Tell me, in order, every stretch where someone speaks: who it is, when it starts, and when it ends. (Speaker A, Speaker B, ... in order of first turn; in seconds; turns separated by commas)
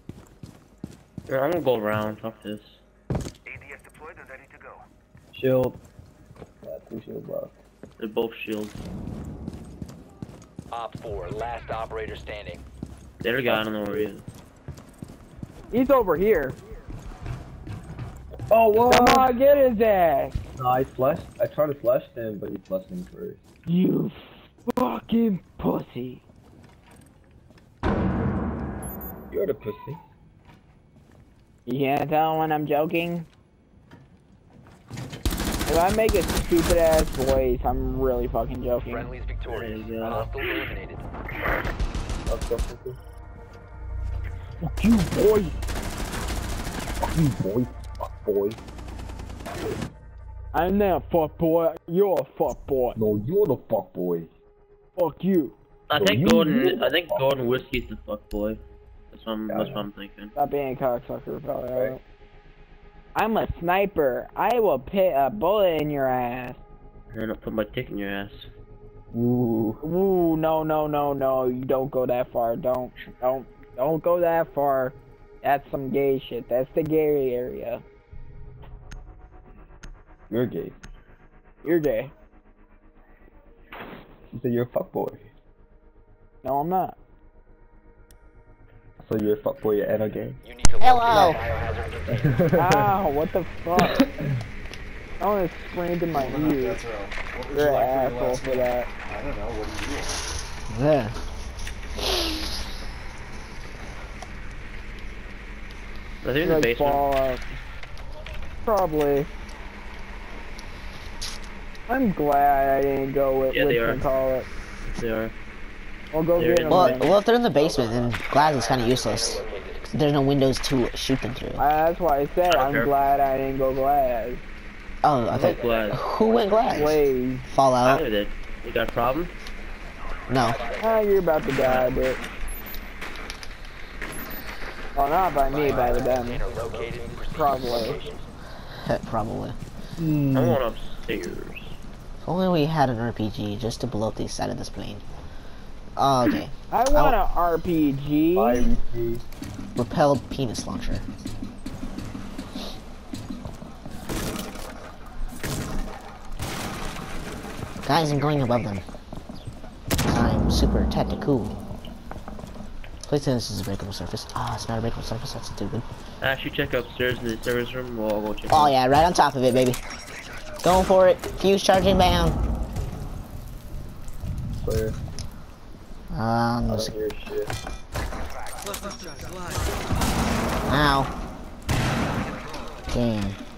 Speaker A: 1.3-2.8, Speaker B: 3.7-4.6, Speaker C: 5.3-5.8, Speaker C: 6.6-7.6, Speaker A: 8.0-8.8, Speaker B: 10.7-12.6, Speaker A: 13.2-14.2, Speaker C: 13.5-14.1, Speaker D: 15.7-16.6, Speaker C: 18.5-19.3, Speaker D: 18.9-20.4, Speaker C: 20.6-23.4, Speaker D: 23.7-26.2, Speaker C: 29.3-30.0, Speaker D: 31.7-33.3, Speaker D: 35.7-39.1, Speaker B: 38.8-41.0, Speaker A: 39.5-40.3, Speaker C: 42.3-43.0, Speaker D: 44.6-45.5, Speaker C: 47.1-48.6, Speaker D: 50.5-53.0, Speaker C: 53.0-54.3, Speaker D: 55.0-55.5, Speaker A: 55.9-58.6, Speaker C: 55.9-57.6, Speaker A: 59.1-60.3, Speaker C: 59.5-59.9, Speaker D: 60.4-62.0, Speaker D: 63.1-66.6, Speaker A: 67.1-68.5, Speaker C: 69.1-69.8, Speaker D: 69.8-77.8, Speaker C: 80.3-80.8, Speaker D: 81.6-82.1, Speaker C: 84.3-85.3, Speaker D: 86.4-87.0, Speaker C: 89.0-90.4, Speaker B: 90.4-92.3, Speaker E: 90.8-91.4, Speaker C: 92.1-93.0, Speaker D: 92.5-94.1, Speaker D: 95.2-96.8, Speaker F: 96.1-100.4, Speaker D: 97.5-98.9, Speaker E: 100.7-101.2, Speaker A: 106.2-107.0, Speaker D: 106.4-107.4, Speaker D: 108.7-109.3, Speaker D: 111.9-114.5, Speaker A: 113.5-114.0, Speaker A: 114.8-115.3, Speaker D: 116.1-117.1, Speaker A: 116.4-117.0, Speaker E: 116.7-121.6, Speaker B: 118.4-119.9, Speaker D: 121.6-124.4, Speaker A: 122.5-122.9, Speaker E: 125.0-128.0, Speaker A: 125.3-126.0, Speaker B: 125.4-126.9, Speaker D: 126.7-127.5, Speaker A: 127.8-129.3, Speaker E: 130.3-130.6, Speaker B: 130.3-130.9, Speaker D: 130.8-132.2, Speaker A: 131.6-131.9, Speaker D: 134.9-136.4, Speaker B: 135.5-138.2, Speaker D: 137.3-138.0, Speaker E: 138.8-139.6, Speaker C: 140.0-140.6, Speaker A: 140.3-141.7, Speaker E: 142.2-145.0, Speaker E: 146.0-147.2, Speaker D: 146.7-148.7, Speaker C: 148.3-149.2, Speaker E: 149.8-151.1, Speaker E: 157.9-158.8, Speaker E: 160.1-161.6, Speaker E: 163.1-165.8, Speaker A: 166.2-168.7, Speaker E: 168.5-169.8, Speaker E: 170.6-172.4, Speaker C: 174.6-175.0, Speaker E: 176.1-176.9, Speaker C: 176.6-177.5, Speaker E: 180.7-181.1, Speaker E: 182.9-183.4